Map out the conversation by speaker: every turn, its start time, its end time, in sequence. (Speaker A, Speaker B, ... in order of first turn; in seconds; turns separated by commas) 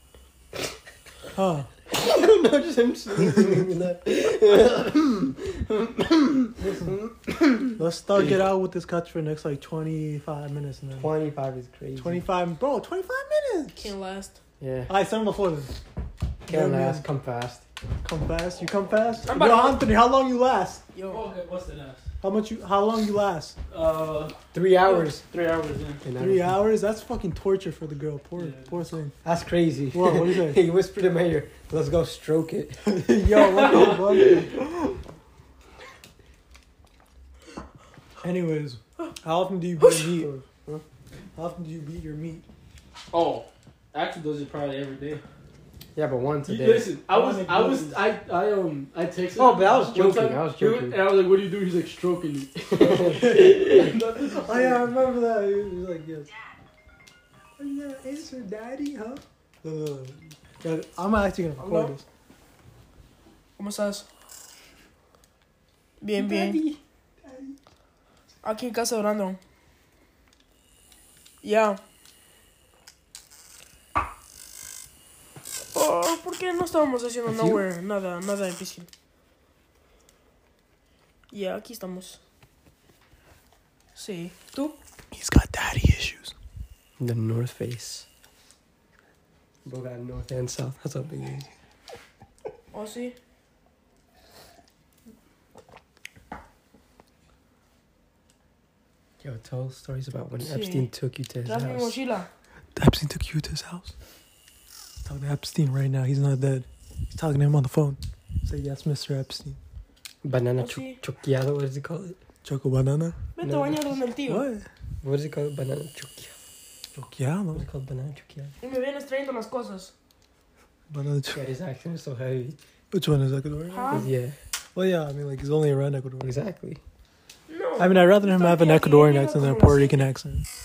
Speaker A: 1.3-1.7, Speaker B: 1.9-7.8, Speaker A: 6.6-7.0, Speaker A: 7.7-11.1, Speaker B: 11.0-12.2, Speaker A: 12.0-13.9, Speaker C: 13.8-14.4, Speaker B: 14.6-14.9, Speaker A: 14.9-15.8, Speaker A: 16.5-17.0, Speaker B: 16.5-17.6, Speaker A: 18.0-20.8, Speaker C: 19.3-19.9, Speaker C: 20.9-21.2, Speaker D: 21.1-22.1, Speaker A: 22.2-23.6, Speaker D: 23.7-26.0, Speaker B: 24.5-25.2, Speaker B: 26.0-26.5, Speaker A: 26.1-29.1, Speaker D: 28.4-28.8, Speaker B: 29.2-32.8, Speaker A: 29.9-30.6, Speaker A: 32.8-34.6, Speaker D: 33.4-34.4, Speaker B: 33.9-34.2, Speaker A: 38.2-40.4, Speaker A: 41.4-42.4, Speaker D: 43.1-45.2, Speaker B: 45.9-46.9, Speaker D: 46.5-54.8, Speaker A: 47.1-48.0, Speaker B: 49.4-51.0, Speaker B: 52.8-53.2, Speaker A: 53.1-56.3, Speaker A: 57.6-62.0, Speaker C: 61.6-61.9, Speaker C: 63.6-64.0, Speaker C: 66.0-66.6, Speaker A: 66.2-67.6, Speaker C: 68.4-69.4, Speaker C: 71.4-71.8, Speaker C: 75.7-78.9, Speaker B: 77.2-77.6, Speaker C: 81.3-82.2, Speaker C: 84.0-84.8, Speaker A: 85.1-86.3, Speaker B: 87.0-88.0, Speaker B: 89.6-91.5, Speaker C: 92.7-93.2, Speaker B: 99.2-102.0, Speaker C: 100.4-100.9, Speaker C: 101.4-102.3, Speaker A: 102.8-103.9, Speaker A: 105.0-109.6, Speaker B: 110.2-112.2, Speaker C: 110.6-111.0, Speaker A: 112.4-113.2, Speaker C: 113.3-114.5, Speaker B: 113.4-113.8, Speaker A: 114.3-114.7, Speaker B: 115.0-116.3, Speaker A: 117.0-117.7, Speaker B: 117.5-118.5, Speaker C: 118.6-119.9, Speaker A: 120.9-121.4, Speaker B: 121.3-122.6, Speaker A: 122.9-124.0, Speaker C: 123.7-124.1, Speaker B: 123.9-124.3, Speaker A: 124.7-126.3, Speaker B: 126.2-126.8, Speaker C: 127.5-130.1, Speaker A: 127.8-130.4